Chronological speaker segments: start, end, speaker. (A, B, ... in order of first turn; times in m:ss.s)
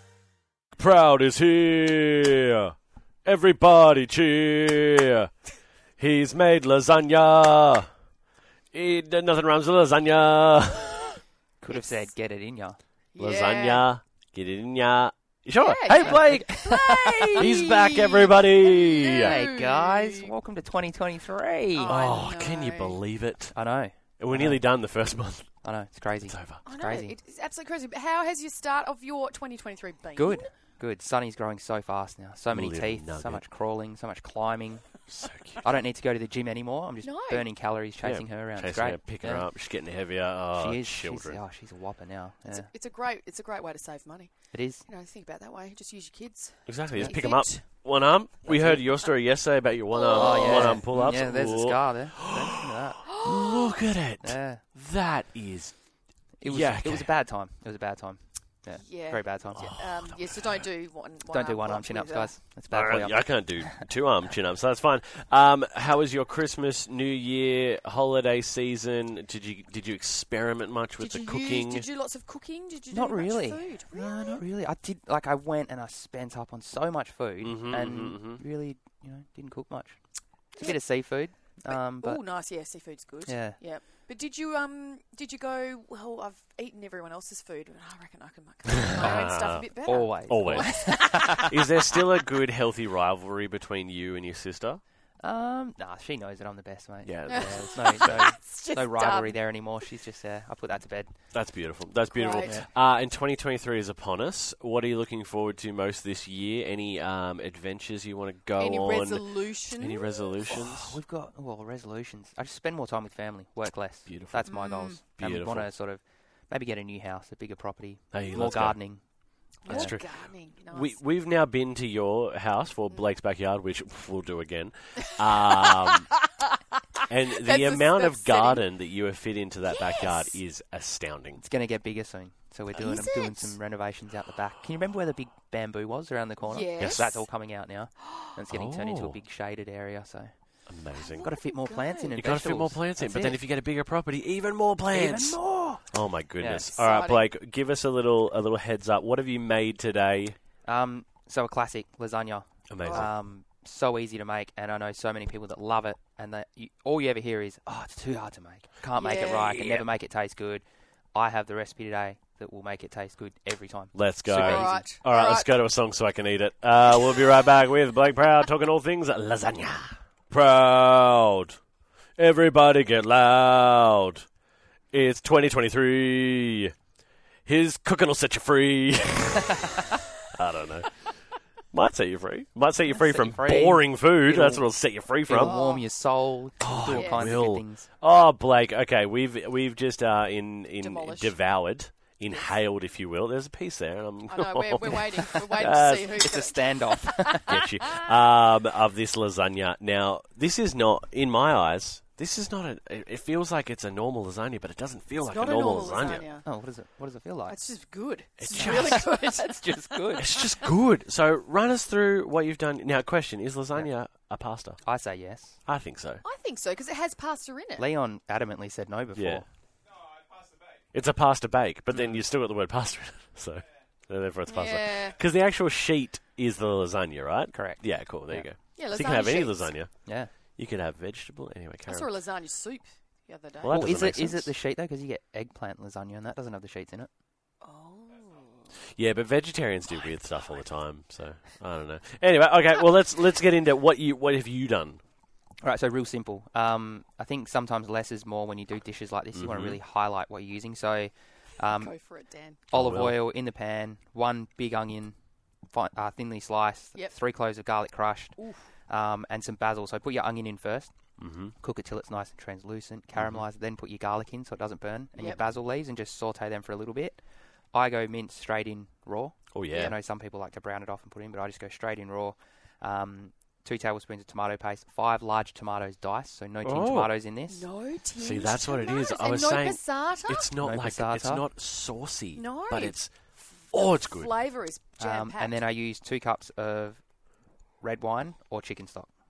0:00.8-0:02.7 A
0:03.2-0:05.3 A
0:06.0-0:07.9 A
0:08.7-0:11.2 A
0:11.6-0:12.8 B
0:11.7-0:12.1 C
0:13.1-0:13.8 C
0:13.2-0:16.6 A
0:15.6-0:20.3 C
0:15.9-0:17.8 B
0:17.4-0:19.4 A
0:19.2-0:22.1 B
0:21.7-0:23.0 C
0:21.8-0:26.6 A
0:23.5-0:24.7 B
0:25.6-0:27.2 B
0:26.6-0:30.5 C
0:30.2-0:35.1 B
0:32.5-0:33.4 A
0:35.1-0:35.6 A
0:35.6-0:39.5 B
0:37.0-0:37.5 C
0:38.0-0:41.4 A
0:40.5-0:42.7 B
0:42.4-0:47.8 C
0:44.5-0:44.8 B
0:46.6-0:57.1 A
0:46.9-0:47.2 B
0:48.4-0:49.2 C
0:49.9-0:50.8 C
0:50.1-0:53.1 B
0:53.0-0:53.8 C
0:54.2-0:54.6 B
0:56.4-0:59.7 B
0:58.7-1:02.4 C
0:59.5-1:00.4 A
1:01.2-1:03.8 B
1:02.7-1:11.9 A
1:11.0-1:14.4 C
1:12.9-1:22.2 B
1:17.4-1:18.4 A
1:20.6-1:21.1 C
1:21.6-1:31.5 C
1:23.2-1:23.6 B
1:29.0-1:29.6 A
1:29.8-1:31.5 B
1:30.3-1:34.8 A
1:35.2-1:41.4 B
1:37.0-1:38.2 A
1:37.3-1:39.7 C
1:41.3-1:51.0 A
1:42.1-1:42.5 C
1:42.4-1:42.7 B
1:48.6-1:50.3 C
1:50.4-2:00.0 B
1:54.1-1:54.5 A
1:54.4-1:55.0 C
1:55.1-1:55.7 A
1:58.1-1:58.9 A
1:58.3-1:58.7 C
1:59.6-2:01.0 C
1:59.7-2:06.1 A
2:05.6-2:08.6 C
2:07.1-2:11.4 A
2:09.7-2:10.4 C
2:11.4-2:20.3 B
2:12.7-2:13.6 C
2:16.4-2:17.3 C
2:16.8-2:17.1 A
2:18.0-2:18.3 C
2:18.5-2:19.2 A
2:20.7-2:21.3 A
2:21.0-2:22.2 C
2:21.2-2:23.4 B
2:22.2-2:30.4 A
2:24.9-2:25.9 B
2:26.4-2:26.7 B
2:26.7-2:27.2 C
2:30.6-2:44.9 B
2:32.7-2:33.1 A
2:38.9-2:39.6 C
2:39.4-2:39.8 A
2:43.9-2:51.6 A
2:44.3-2:45.5 C
2:52.2-2:54.2 A
2:54.9-2:56.7 A
2:57.4-3:05.6 A
3:02.9-3:07.9 B
3:05.3-3:05.9 C
3:06.6-3:16.3 A
3:06.9-3:07.2 C
3:10.8-3:11.3 C
3:14.3-3:17.6 C
3:14.8-3:17.6 B
3:17.5-3:26.3 A
3:25.2-3:26.4 C
3:26.3-3:27.7 B
3:27.4-3:30.2 C
3:28.4-3:29.1 A
3:28.5-3:30.3 B
3:30.2-3:34.8 A
3:34.8-3:35.6 B
3:35.6-3:36.2 A
3:36.2-3:37.9 C
3:37.8-3:39.5 B
3:39.1-3:39.4 A
3:40.9-3:52.1 A
3:44.5-3:45.2 C
3:47.5-3:48.7 B
3:48.8-3:49.7 C
3:50.0-3:50.3 B
3:51.8-3:53.8 C
3:53.6-3:54.5 A
3:53.7-3:57.1 B
3:57.6-3:58.7 C
3:58.9-4:05.0 A
4:05.6-4:12.0 B
4:09.3-4:09.8 A
4:11.7-4:12.6 C
4:12.7-4:13.2 A
4:12.7-4:15.1 B
4:15.7-4:20.9 B
4:18.4-4:18.7 C
4:21.2-4:21.5 A
4:21.6-4:27.2 B
4:23.2-4:23.4 A
4:25.1-4:25.4 C
4:27.7-4:37.7 B
4:29.5-4:30.0 A
4:36.6-4:37.1 A
4:37.5-4:40.5 C
4:38.2-4:44.3 A
4:40.6-4:41.5 B
4:42.3-4:45.6 C
4:45.0-4:47.0 B
4:47.8-4:49.1 B